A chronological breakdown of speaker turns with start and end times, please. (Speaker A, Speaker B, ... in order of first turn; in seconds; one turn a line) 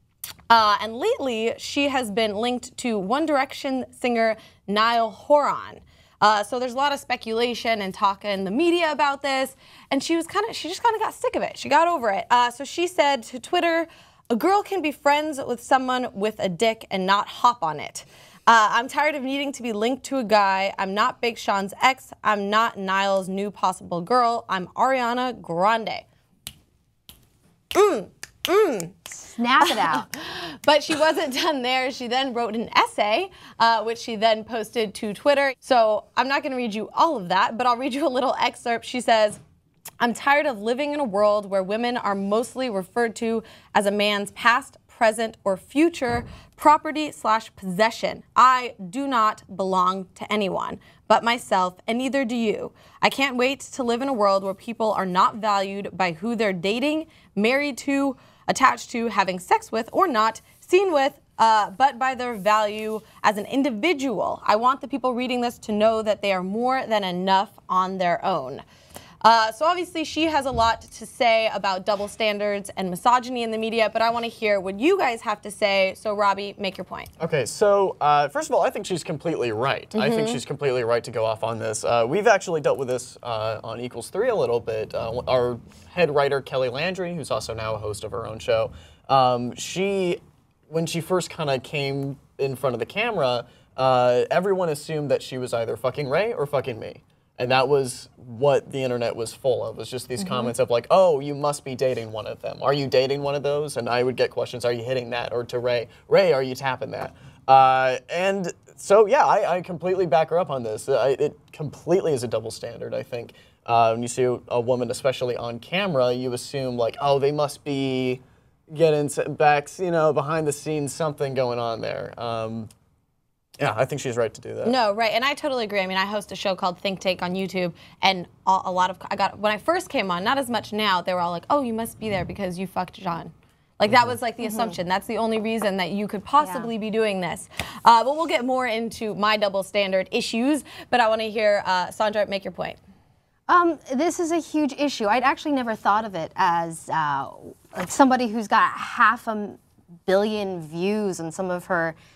Speaker A: 0.5-26.1
Speaker A: 27.7-29.0
Speaker B: 29.3-30.0
Speaker A: 29.6-39.4
Speaker A: 40.0-68.6
Speaker A: 69.2-77.1
Speaker C: 77.2-122.7
Speaker A: 79.9-80.4
Speaker A: 100.2-100.5
Speaker C: 123.6-124.8
Speaker A: 124.6-142.8
Speaker B: 134.4-134.7
Speaker B: 136.4-136.7
Speaker B: 143.5-152.0